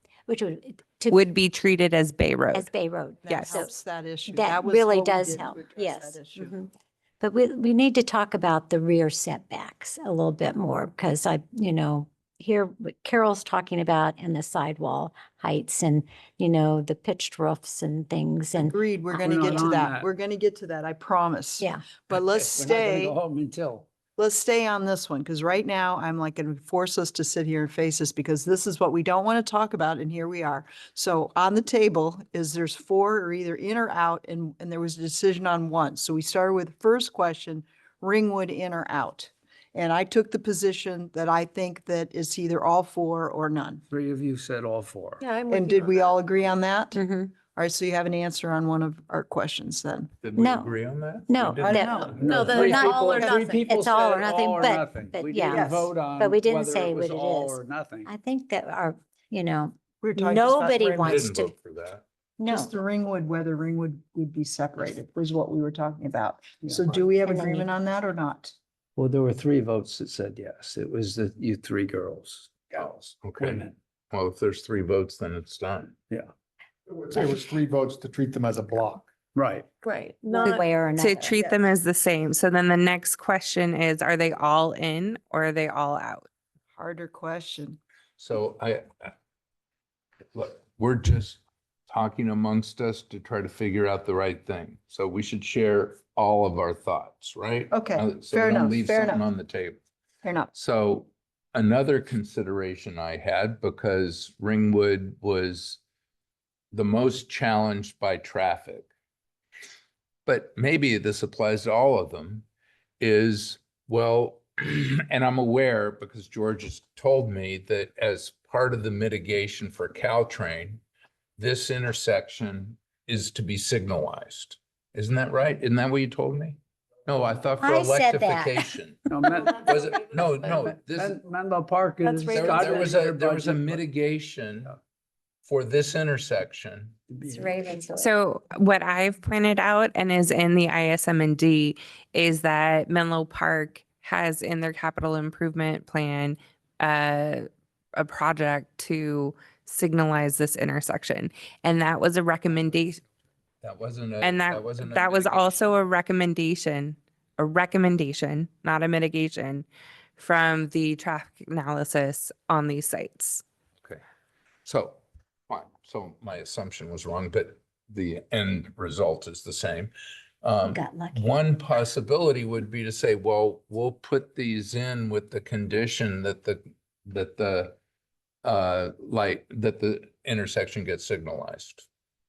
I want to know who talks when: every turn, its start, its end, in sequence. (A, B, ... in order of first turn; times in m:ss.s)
0:00.3-0:01.2 A
0:01.1-0:02.7 B
0:02.5-0:03.7 A
0:03.2-0:06.5 C
0:04.2-0:18.8 A
0:18.6-0:23.2 C
0:19.1-0:20.1 D
0:21.6-0:21.9 A
0:22.1-0:23.9 D
0:24.2-0:43.8 C
0:43.9-0:45.2 D
0:45.2-0:46.5 E
0:45.5-0:47.0 C
0:46.9-0:47.3 A
0:47.5-0:50.1 C
0:50.2-0:52.5 F
0:50.3-0:50.7 A
0:51.3-1:01.5 A
0:51.6-0:52.8 C
0:52.1-0:58.1 D
0:52.3-0:53.6 E
1:00.0-1:01.3 C
1:01.0-1:02.0 F
1:02.4-1:02.7 A
1:02.4-1:08.5 C
1:07.2-1:07.7 A
1:09.0-1:13.7 D
1:13.2-1:16.0 F
1:16.9-1:19.1 G
1:19.3-1:19.7 D
1:19.8-1:20.6 E
1:20.2-1:21.4 A
1:20.4-1:26.2 B
1:26.7-1:27.8 C
1:28.2-1:29.1 F
1:30.3-1:39.8 F
1:37.7-1:39.3 C
1:40.2-1:40.5 C
1:40.5-1:45.8 F
1:46.7-1:48.9 F
1:50.2-1:52.4 F
1:53.0-2:00.8 F
2:01.4-2:11.2 F
2:07.6-2:08.7 A
2:09.1-2:13.8 D
2:12.0-2:12.6 E
2:12.3-2:14.8 F
2:15.4-2:17.0 F
2:17.1-2:17.5 D
2:17.3-2:18.1 A
2:17.9-2:33.0 B
2:33.6-2:35.7 F
2:34.2-2:43.4 B
2:44.6-2:57.8 F
2:50.6-2:51.3 A
2:58.4-3:01.9 F